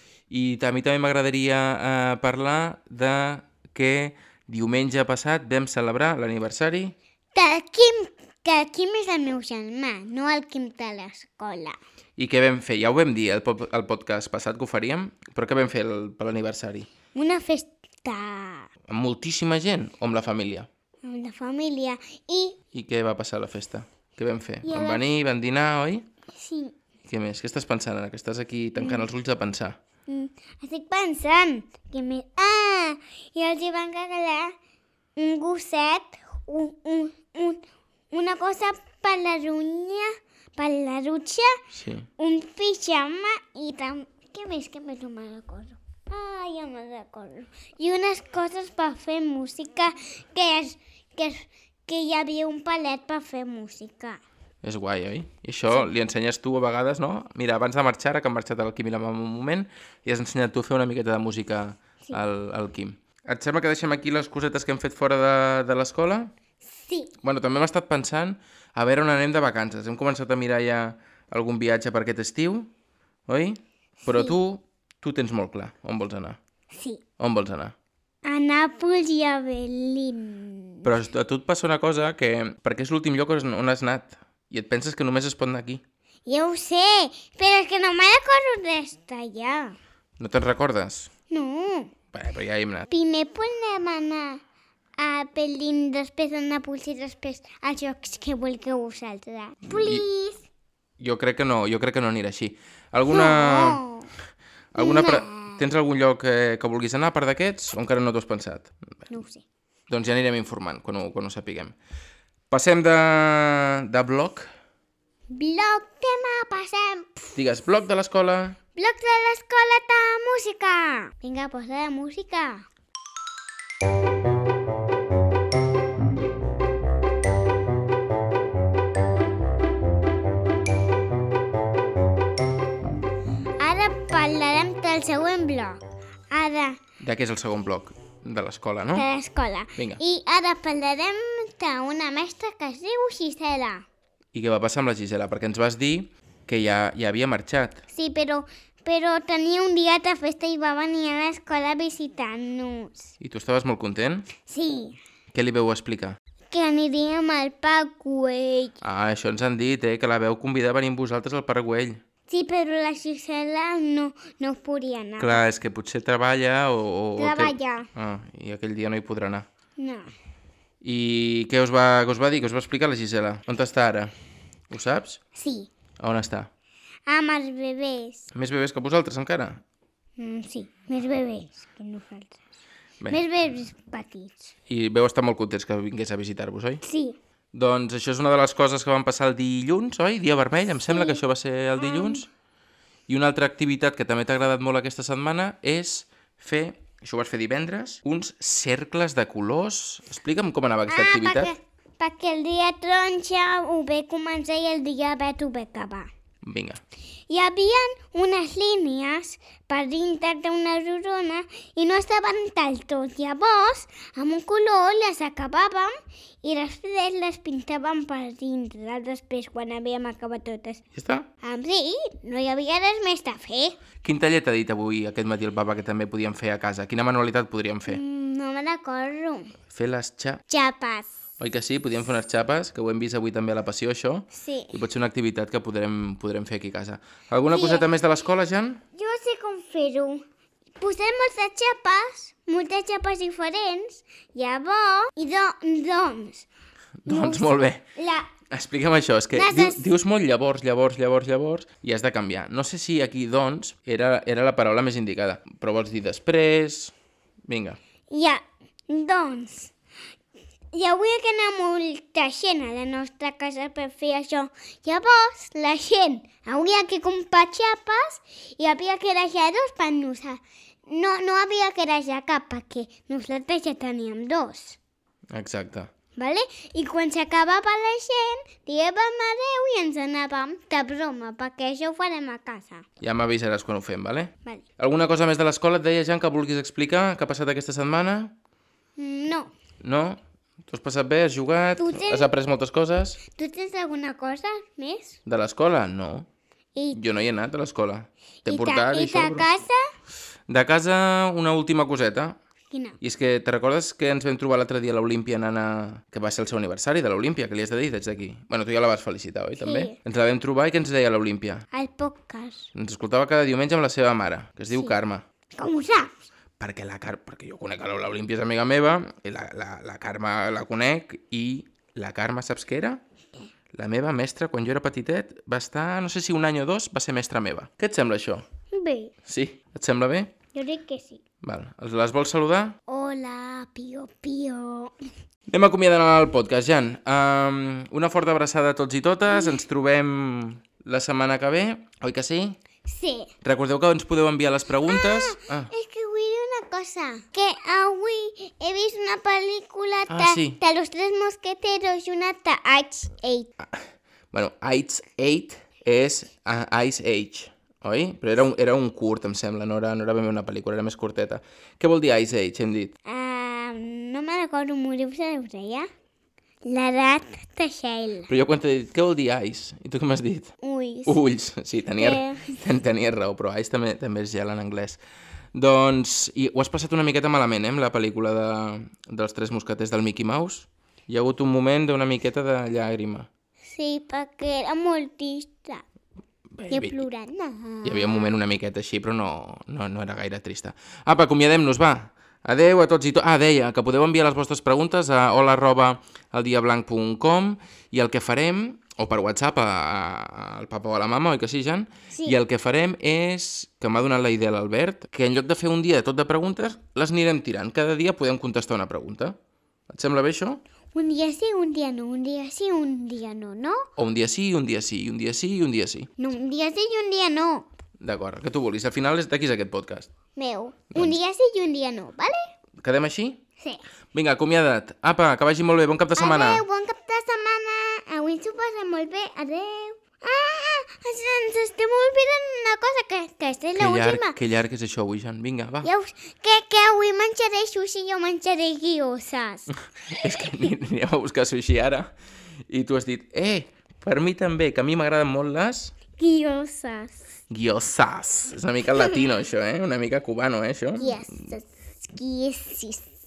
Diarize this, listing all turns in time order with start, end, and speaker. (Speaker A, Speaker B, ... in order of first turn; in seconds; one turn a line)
Speaker A: 0.3-6.9
Speaker B: 7.3-11.8
Speaker A: 12.2-16.9
Speaker B: 17.1-18.7
Speaker A: 18.9-20.7
Speaker B: 21.0-22.6
Speaker A: 22.7-26.1
Speaker B: 24.6-25.0
Speaker B: 26.3-26.7
Speaker A: 27.1-29.8
Speaker B: 28.8-29.1
Speaker B: 30.1-34.5
Speaker B: 35.1-41.5
Speaker A: 41.7-42.1
Speaker B: 42.2-54.2
Speaker A: 54.6-66.3
Speaker B: 66.6-67.1
Speaker A: 67.2-72.7
Speaker A: 73.3-76.4
Speaker B: 74.0-74.3
Speaker B: 76.7-77.0
Speaker A: 77.2-77.7
Speaker B: 78.2-80.9
Speaker A: 80.8-85.8
Speaker B: 86.2-89.8
Speaker A: 90.2-91.1
Speaker B: 91.3-91.9
Speaker A: 92.1-92.9
Speaker B: 92.9-94.4
Speaker B: 95.0-100.5
Speaker A: 99.7-100.0
Speaker A: 101.0-103.8
Speaker B: 103.0-104.1
Speaker A: 104.7-108.7
Speaker B: 104.8-105.6
Speaker B: 109.1-109.4
Speaker A: 109.9-111.7
Speaker A: 112.5-114.5
Speaker B: 115.3-117.4
Speaker A: 117.3-118.6
Speaker B: 118.8-122.7
Speaker B: 133.6-136.8
Speaker A: 137.0-139.1
Speaker B: 138.9-143.8
Speaker A: 139.8-140.0
Speaker A: 144.3-147.8
Speaker B: 147.9-153.1
Speaker A: 153.2-154.3
Speaker B: 154.5-155.0
Speaker A: 155.3-156.2
Speaker B: 156.5-158.8
Speaker A: 158.8-162.0
Speaker B: 162.3-165.4
Speaker A: 165.2-169.5
Speaker B: 167.2-167.9
Speaker B: 169.8-170.1
Speaker A: 170.8-174.1
Speaker A: 174.7-175.2
Speaker B: 175.3-175.7
Speaker A: 176.0-176.5
Speaker B: 177.1-178.3
Speaker A: 178.3-179.6
Speaker B: 180.2-182.4
Speaker B: 183.1-184.5
Speaker A: 184.7-186.8
Speaker B: 186.8-187.2
Speaker A: 187.5-192.3
Speaker B: 190.9-191.2
Speaker B: 191.8-192.2
Speaker A: 193.1-201.5
Speaker B: 200.9-206.1
Speaker A: 206.4-206.8
Speaker B: 207.3-220.8
Speaker A: 220.9-221.3
Speaker B: 221.4-223.8
Speaker A: 224.0-228.0
Speaker B: 227.9-229.5
Speaker A: 229.7-230.4
Speaker B: 230.5-231.1
Speaker A: 231.4-238.8
Speaker B: 234.3-234.7
Speaker B: 237.5-237.8
Speaker B: 238.9-240.2
Speaker B: 240.8-246.5
Speaker A: 247.0-247.8
Speaker B: 247.1-248.3
Speaker A: 248.5-256.9
Speaker B: 249.3-249.9
Speaker A: 257.5-257.8
Speaker B: 258.1-259.7
Speaker B: 260.7-274.8
Speaker A: 275.3-275.9
Speaker B: 276.1-282.8
Speaker A: 283.0-288.4
Speaker B: 289.0-289.5
Speaker A: 289.8-293.2
Speaker B: 291.8-292.3
Speaker B: 293.3-295.2
Speaker A: 295.2-296.3
Speaker B: 296.8-297.0
Speaker A: 296.9-299.5
Speaker B: 298.4-299.9
Speaker A: 300.5-302.4
Speaker B: 302.7-303.0
Speaker A: 303.0-311.6
Speaker B: 309.6-309.9
Speaker B: 311.7-312.7
Speaker A: 312.7-315.2
Speaker B: 315.6-316.1
Speaker A: 316.6-323.0
Speaker A: 323.7-328.4
Speaker B: 328.7-329.1
Speaker A: 329.2-330.3
Speaker B: 330.5-331.2
Speaker A: 331.4-332.8
Speaker B: 332.9-334.9
Speaker A: 335.5-342.6
Speaker B: 339.3-339.6
Speaker B: 342.9-343.3
Speaker A: 343.4-345.7
Speaker B: 344.8-353.5
Speaker A: 350.1-350.6
Speaker A: 353.6-362.9
Speaker B: 363.0-365.9
Speaker B: 366.6-368.3
Speaker A: 368.3-370.5
Speaker B: 370.6-371.2
Speaker A: 371.1-375.0
Speaker B: 372.0-372.6
Speaker A: 375.5-383.3
Speaker B: 383.7-385.8
Speaker A: 386.5-387.0
Speaker B: 386.7-388.3
Speaker A: 387.8-409.4
Speaker B: 402.1-402.4
Speaker A: 409.9-410.6
Speaker B: 410.9-413.8
Speaker A: 414.0-416.1
Speaker B: 416.2-417.7
Speaker A: 418.0-420.1
Speaker B: 420.3-422.5
Speaker A: 422.8-423.4
Speaker A: 424.1-426.6
Speaker B: 426.1-434.4
Speaker A: 433.8-435.9
Speaker B: 435.8-440.1
Speaker A: 440.1-442.1
Speaker A: 442.7-445.9
Speaker B: 446.2-447.2
Speaker A: 447.5-451.4
Speaker B: 451.0-453.1